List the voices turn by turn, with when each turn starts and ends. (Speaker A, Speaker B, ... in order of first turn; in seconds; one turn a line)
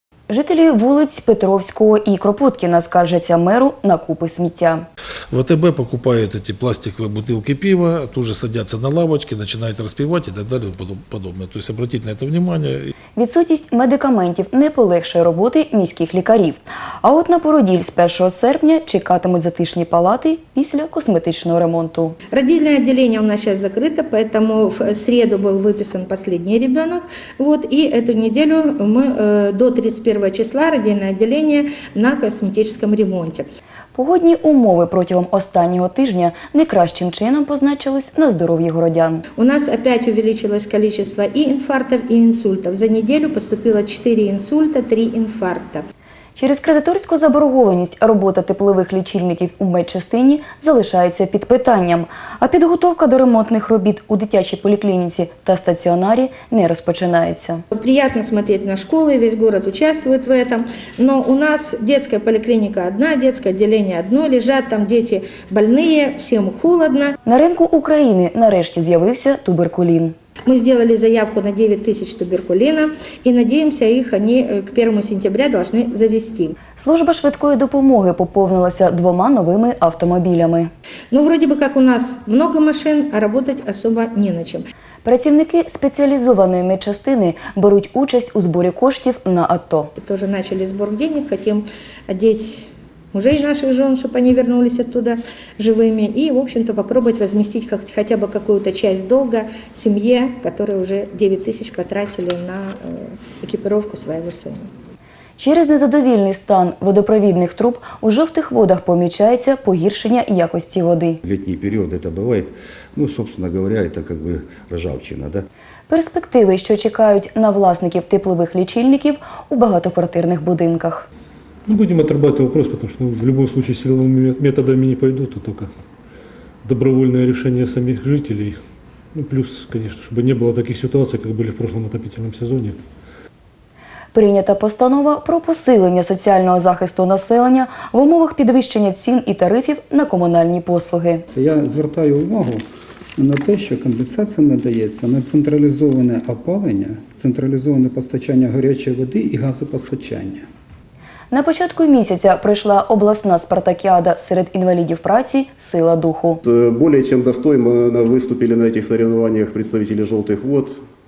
Speaker A: 0.3-4.8
Speaker B: 5.3-12.9
Speaker A: 13.2-22.2
Speaker C: 22.3-33.5
Speaker A: 33.9-39.2
Speaker C: 39.4-45.8
Speaker A: 46.4-57.6
Speaker C: 57.7-67.1
Speaker A: 67.2-70.1
Speaker C: 70.5-76.5
Speaker A: 76.8-80.7
Speaker C: 81.1-84.6
Speaker A: 85.0-89.9
Speaker C: 90.0-104.7
Speaker A: 105.4-111.2
Speaker D: 111.2-115.4
Speaker A: 115.9-121.0
Speaker E: 121.7-125.7
Speaker E: 126.6-128.6
Speaker E: 129.1-132.8
Speaker A: 134.1-141.2
Speaker F: 141.3-142.6
Speaker F: 143.2-150.4
Speaker A: 151.3-156.4
Speaker G: 156.4-160.8